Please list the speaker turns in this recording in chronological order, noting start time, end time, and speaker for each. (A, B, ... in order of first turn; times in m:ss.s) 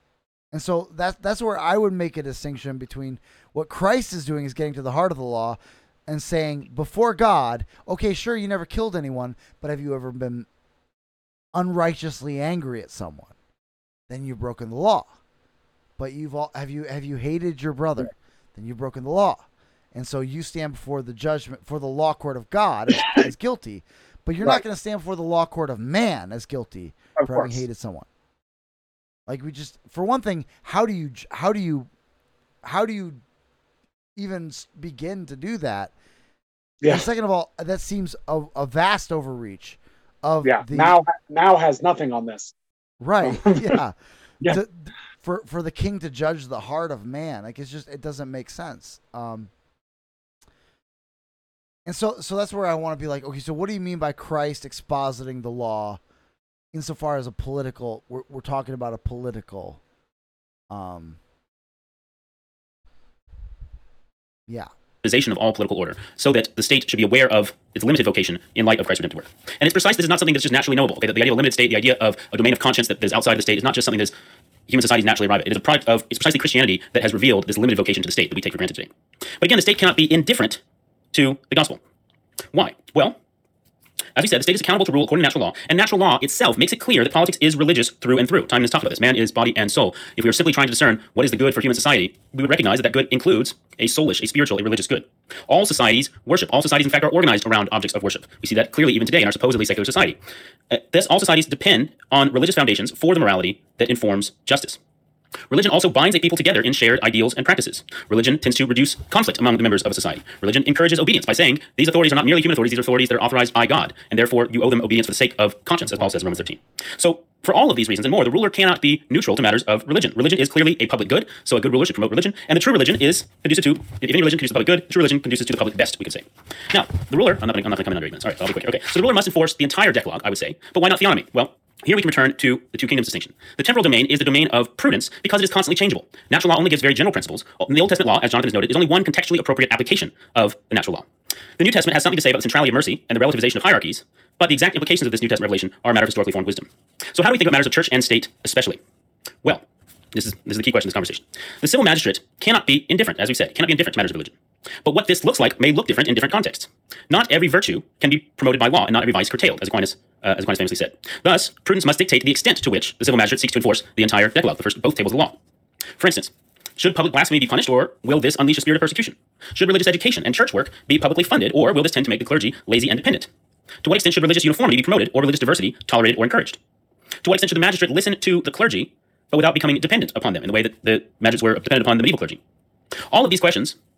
0:00.5-0:10.5 A
0:11.5-0:13.3 A
0:14.1-0:15.1 A
0:16.0-0:28.1 A
0:27.2-0:27.6 B
0:29.3-0:31.9 A
0:32.6-0:33.2 A
0:34.2-0:35.9 A
0:36.9-0:41.0 A
0:40.4-0:42.5 B
0:43.0-0:49.5 A
0:43.2-0:43.8 B
0:51.8-0:56.0 A
0:56.7-0:59.8 A
1:00.7-1:01.2 A
1:05.0-1:14.1 C
1:14.7-1:20.6 C
1:21.1-1:21.8 C
1:22.5-1:23.2 C
1:24.2-1:40.2 C
1:40.7-1:44.8 C
1:45.5-2:28.8 C
2:29.4-2:45.4 C
2:46.0-2:53.3 C
2:53.8-2:56.6 C
2:57.2-3:02.4 C
3:03.1-3:03.8 C